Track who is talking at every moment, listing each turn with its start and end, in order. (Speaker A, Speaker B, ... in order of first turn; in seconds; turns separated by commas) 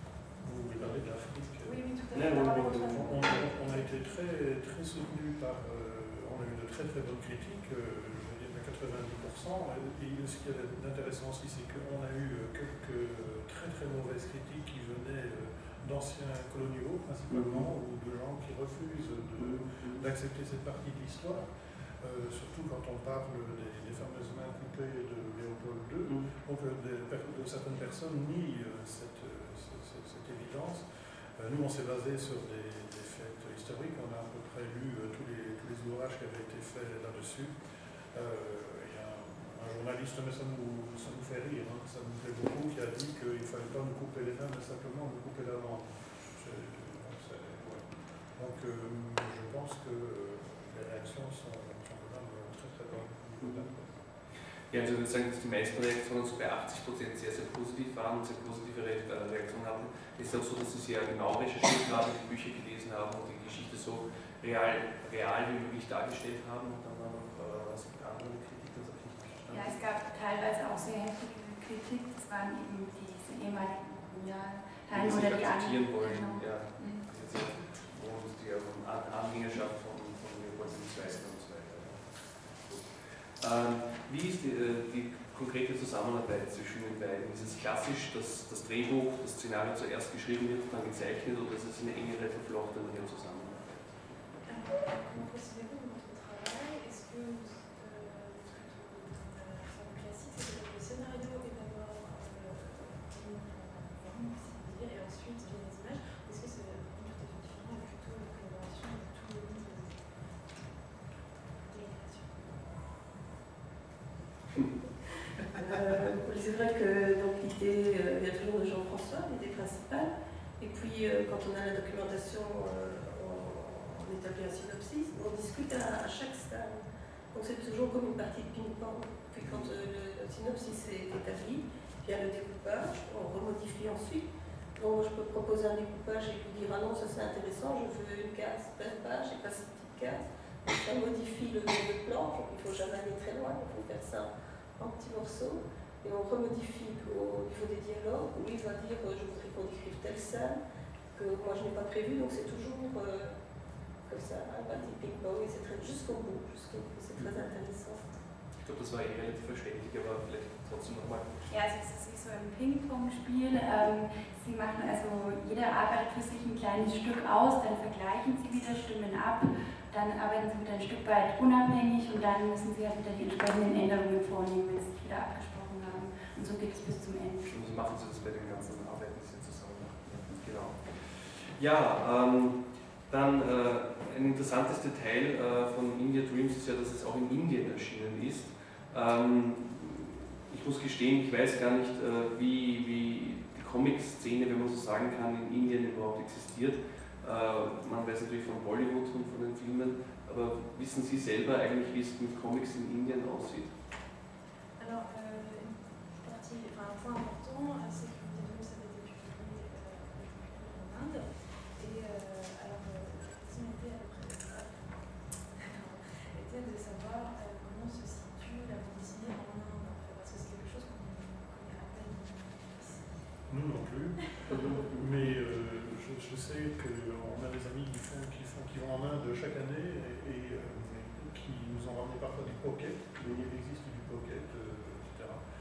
Speaker A: 0.4-1.8, Speaker B: 1.6-4.0, Speaker C: 2.1-3.1, Speaker A: 2.4-21.5, Speaker C: 17.3-17.6, Speaker C: 19.4-20.1, Speaker A: 22.0-30.9, Speaker A: 31.4-37.6, Speaker A: 38.1-54.0, Speaker C: 54.7-69.8, Speaker D: 69.5-77.0, Speaker C: 74.9-93.9, Speaker B: 94.5-110.1, Speaker B: 111.7-112.7, Speaker E: 115.5-126.8, Speaker E: 127.3-150.6, Speaker C: 129.4-129.7, Speaker E: 151.2-153.3, Speaker E: 154.1-158.0, Speaker C: 158.6-161.3, Speaker D: 161.5-177.5, Speaker C: 177.5-203.7, Speaker B: 204.8-223.2, Speaker A: 223.5-235.4